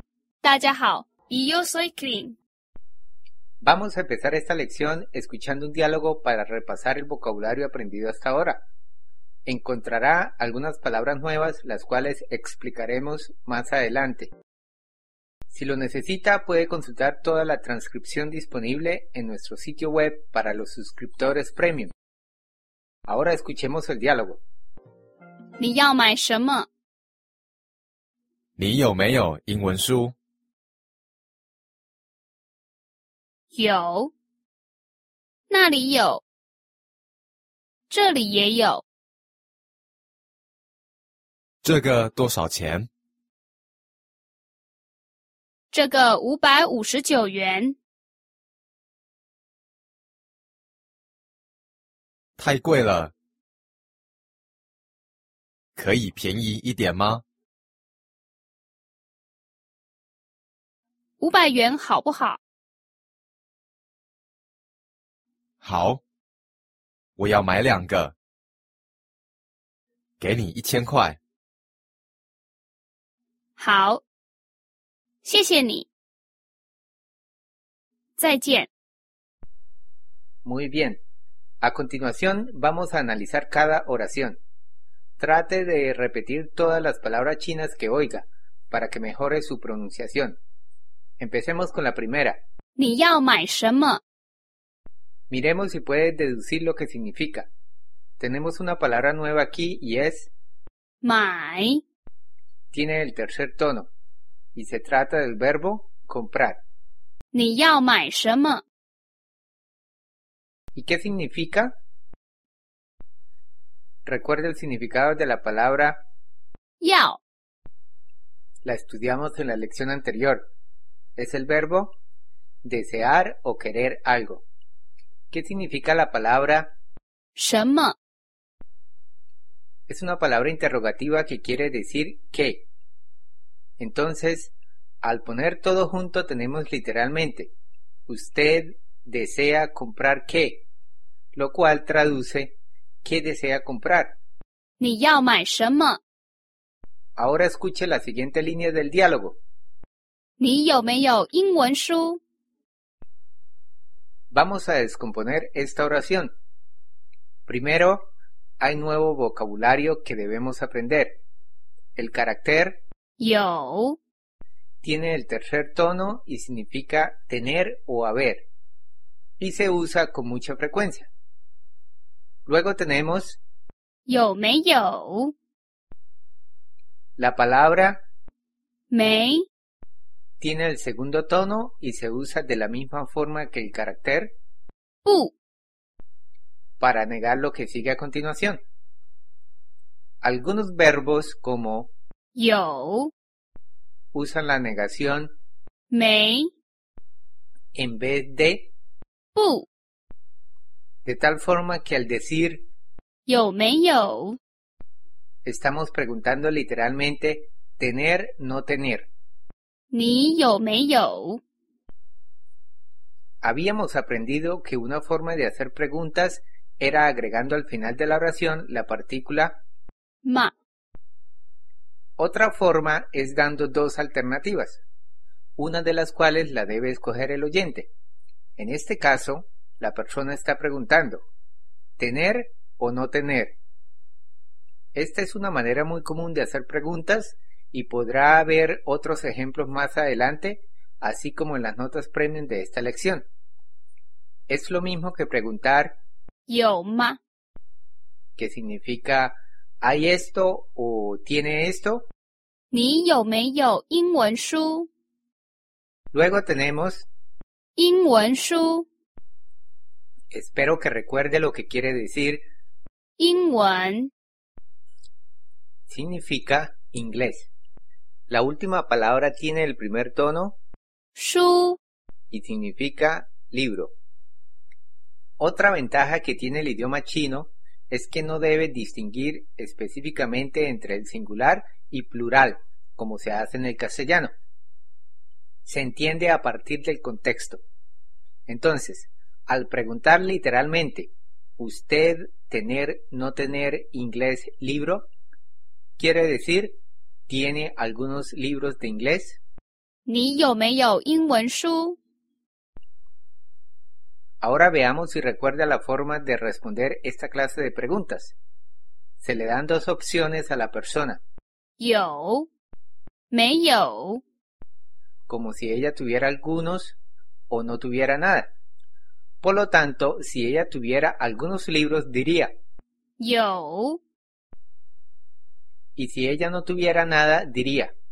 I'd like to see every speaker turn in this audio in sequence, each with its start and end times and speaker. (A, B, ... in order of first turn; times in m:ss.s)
0:00.4-0:02.4 A
0:03.6-0:08.6 B
0:09.4-0:14.3 B
0:15.5-0:21.9 B
0:23.1-0:24.4 B
0:25.6-0:26.7 A
0:28.6-0:30.1 C
0:33.5-0:34.1 A
0:35.5-0:36.2 A
0:37.9-0:38.8 A
0:41.6-0:42.9 C
0:45.7-0:47.8 A
0:52.4-0:53.1 C
0:55.8-0:57.2 C
1:01.2-1:02.4 A
1:05.6-1:06.0 C
1:07.2-1:08.1 C
1:10.2-1:11.2 C
1:13.6-1:14.0 A
1:15.2-1:15.9 A
1:18.2-1:18.7 A
1:20.4-1:21.0 B
1:21.6-1:24.4 B
1:25.2-1:30.4 B
1:31.2-1:32.4 B
1:32.8-1:34.0 A
1:35.3-1:37.5 B
1:38.2-1:40.3 B
1:41.0-1:41.8 A
1:42.7-1:43.9 B
1:44.5-1:46.6 B
1:47.3-1:48.6 A
1:50.7-1:51.7 B
1:54.0-1:56.0 B
1:56.8-1:57.2 A
1:58.6-2:00.5 B
2:01.2-2:01.9 B
2:02.6-2:04.4 B
2:05.3-2:06.7 B
2:07.4-2:07.9 A
2:09.9-2:12.7 B
2:13.8-2:17.5 B
2:18.1-2:20.7 B
2:21.3-2:24.2 B
2:24.8-2:26.0 A
2:27.2-2:29.4 B
2:30.4-2:32.2 A
2:34.3-2:36.3 B
2:37.4-2:41.2 B
2:42.0-2:42.8 B
2:43.2-2:44.0 A
2:44.8-2:48.5 B
2:49.4-2:51.1 B
2:52.4-2:53.4 B
2:54.0-2:55.3 A
2:57.2-2:58.0 B
2:58.9-2:59.5 A
3:00.4-3:04.4 B
3:05.0-3:05.3 A
3:06.8-3:08.6 B
3:10.2-3:11.9 B
3:12.4-3:13.1 A
3:14.1-3:15.3 B
3:15.9-3:16.5 A
3:17.7-3:18.7 B
3:19.3-3:19.7 A
3:21.0-3:22.7 B
3:23.2-3:24.4 A
3:25.4-3:29.1 B
3:29.9-3:31.4 A
3:33.4-3:39.6 B
3:40.2-3:40.5 A
3:42.2-3:44.8 B
3:45.6-3:47.9 B
3:48.6-3:51.2 B
3:52.0-3:53.6 B
3:54.9-4:03.2 B
4:04.5-4:06.0 B
4:06.5-4:07.2 A
4:08.4-4:12.1 B
4:12.7-4:14.9 A
4:16.1-4:17.1 B
4:17.8-4:18.8 A
4:20.3-4:22.4 B
4:23.2-4:24.1 A
4:25.9-4:27.5 B
4:28.3-4:30.6 B
4:31.2-4:31.8 A
4:32.3-4:33.9 B
4:35.4-4:44.3 B
4:45.6-4:47.6 B
4:48.5-4:55.1 B
4:56.0-4:59.4 B
5:00.0-5:02.0 A
5:04.4-5:08.4 B
5:09.2-5:11.2 B
5:11.8-5:12.5 A
5:13.3-5:14.2 A
5:15.3-5:17.0 B
5:17.5-5:18.5 B
5:19.4-5:22.5 B
5:23.2-5:24.0 A
5:26.0-5:27.9 B